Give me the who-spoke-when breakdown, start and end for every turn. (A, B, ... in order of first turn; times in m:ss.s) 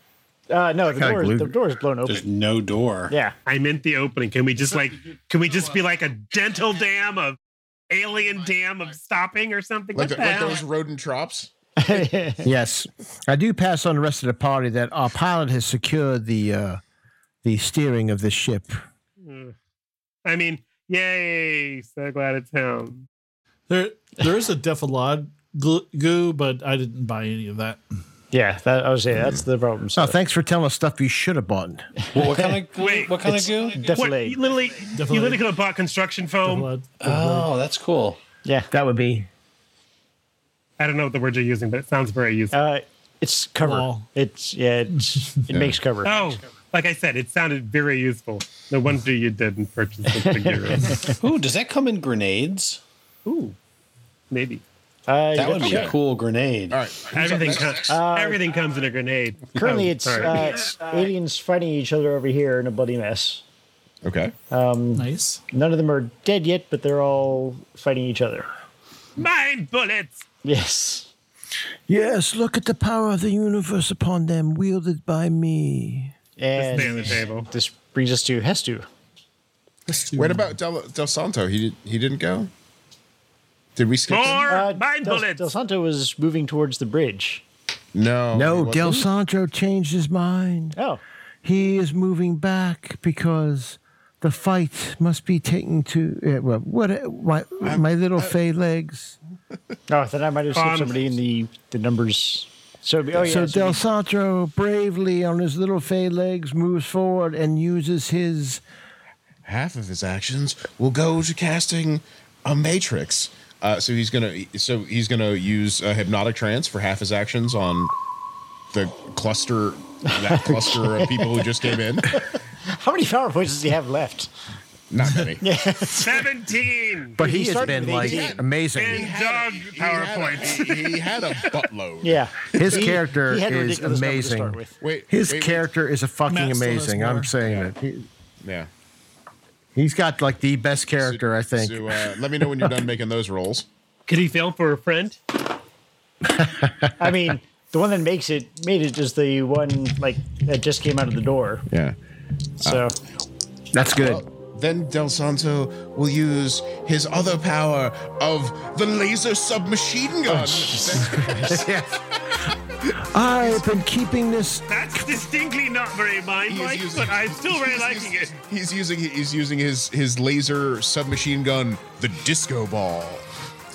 0:00.5-0:02.2 A
0:00.9-0:01.5 B
0:02.0-0:03.1 C
0:03.1-0:03.3 A
0:03.4-0:07.4 D
0:07.9-0:10.6 D
0:09.9-0:11.5 E
0:11.8-0:12.5 A
0:12.4-0:16.8 B
0:17.4-0:18.8 B
0:19.2-0:19.5 D
0:20.2-0:23.1 D
0:23.7-0:27.8 F
0:28.3-0:30.2 A
0:29.9-0:31.9 B
0:32.1-0:33.9 C
0:32.2-0:32.5 A
0:32.8-0:33.3 D
0:33.3-0:34.4 A
0:33.9-0:36.7 D
0:34.9-0:35.4 F
0:36.4-0:37.5 F
0:37.0-0:38.2 C
0:38.7-0:39.3 B
0:40.8-0:42.6 D
0:42.5-0:46.2 A
0:43.6-0:44.1 F
0:45.5-0:45.8 E
0:46.0-0:51.1 D
0:50.2-0:51.1 A
0:51.1-0:52.8 C
0:53.2-0:53.6 D
0:54.3-0:54.6 D
0:55.1-0:55.9 A
0:55.3-0:56.8 C
0:55.6-0:56.0 E
0:56.7-0:57.9 E
0:57.1-1:00.5 D
0:57.8-0:58.4 A
0:59.5-1:03.4 A
1:04.0-1:04.3 E
1:04.5-1:08.5 A
1:05.0-1:05.4 F
1:09.2-1:10.2 D
1:10.4-1:11.1 A
1:11.9-1:16.1 B
1:16.4-1:18.8 A
1:16.6-1:17.3 F
1:16.7-1:17.5 D
1:19.9-1:20.5 F
1:20.1-1:22.5 E
1:23.8-1:24.6 E
1:24.1-1:25.4 D
1:24.4-1:27.4 A
1:27.9-1:29.1 E
1:28.3-1:30.8 B
1:30.7-1:31.0 A
1:31.4-1:39.1 B
1:37.6-1:38.3 E
1:39.9-1:43.8 A
1:40.5-1:41.0 D
1:43.1-1:48.6 B
1:49.4-1:57.9 E
1:58.7-2:02.2 E
2:00.0-2:01.5 A
2:02.0-2:04.3 A
2:04.9-2:05.4 E
2:05.4-2:06.3 A
2:06.0-2:07.2 D
2:07.2-2:09.1 B
2:07.2-2:08.4 A
2:07.6-2:12.9 E
2:08.7-2:11.6 D
2:12.0-2:14.7 A
2:12.5-2:14.6 B
2:14.8-2:15.7 E
2:15.1-2:18.1 B
2:16.3-2:17.4 F
2:17.4-2:17.7 E
2:18.4-2:18.7 E
2:19.7-2:22.6 B
2:21.0-2:23.6 E
2:24.1-2:25.2 D
2:26.3-2:26.9 B
2:27.0-2:31.6 A
2:31.7-2:32.0 E
2:32.6-2:33.0 A
2:33.7-2:34.2 B
2:34.0-2:41.7 E
2:40.2-2:41.6 A
2:41.0-2:42.1 B
2:42.9-2:45.0 B
2:44.7-2:48.3 D
2:46.4-2:53.2 E